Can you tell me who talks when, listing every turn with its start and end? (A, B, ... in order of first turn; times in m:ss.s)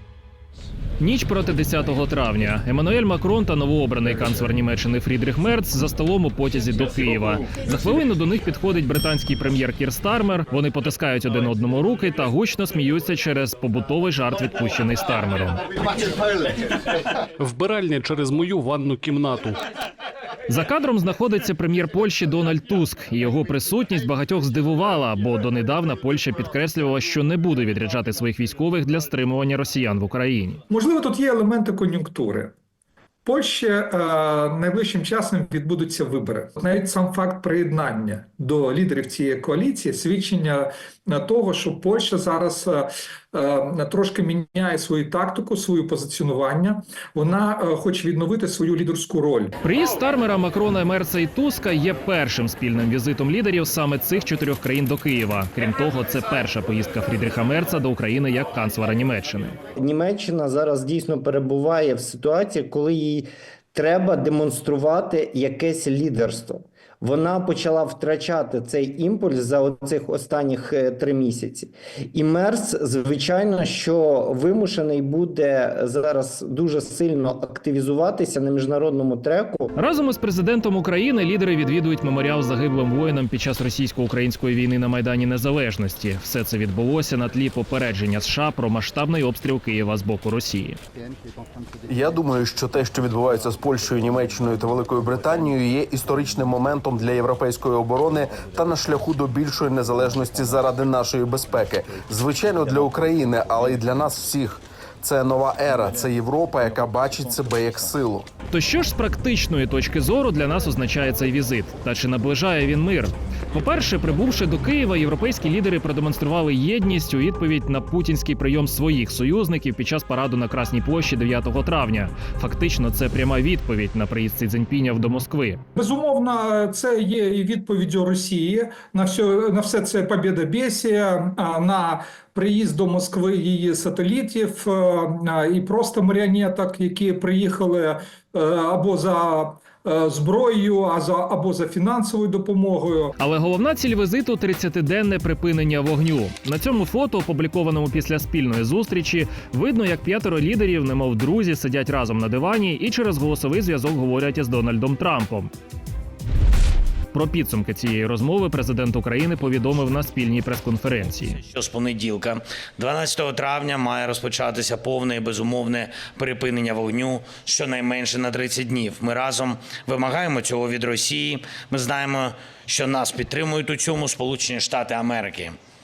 0:01.0-0:15.6 A
0:17.4-0:19.6 B
0:20.5-0:30.6 A
0:30.7-0:32.5 C
0:33.2-0:49.5 C
0:49.6-0:59.6 A
0:59.8-1:19.7 D
1:19.8-1:30.8 A
1:31.9-1:48.3 E
1:48.5-2:05.6 A
2:05.8-2:23.1 C
2:23.2-2:35.5 A
2:37.1-2:41.4 A
2:41.4-2:55.6 F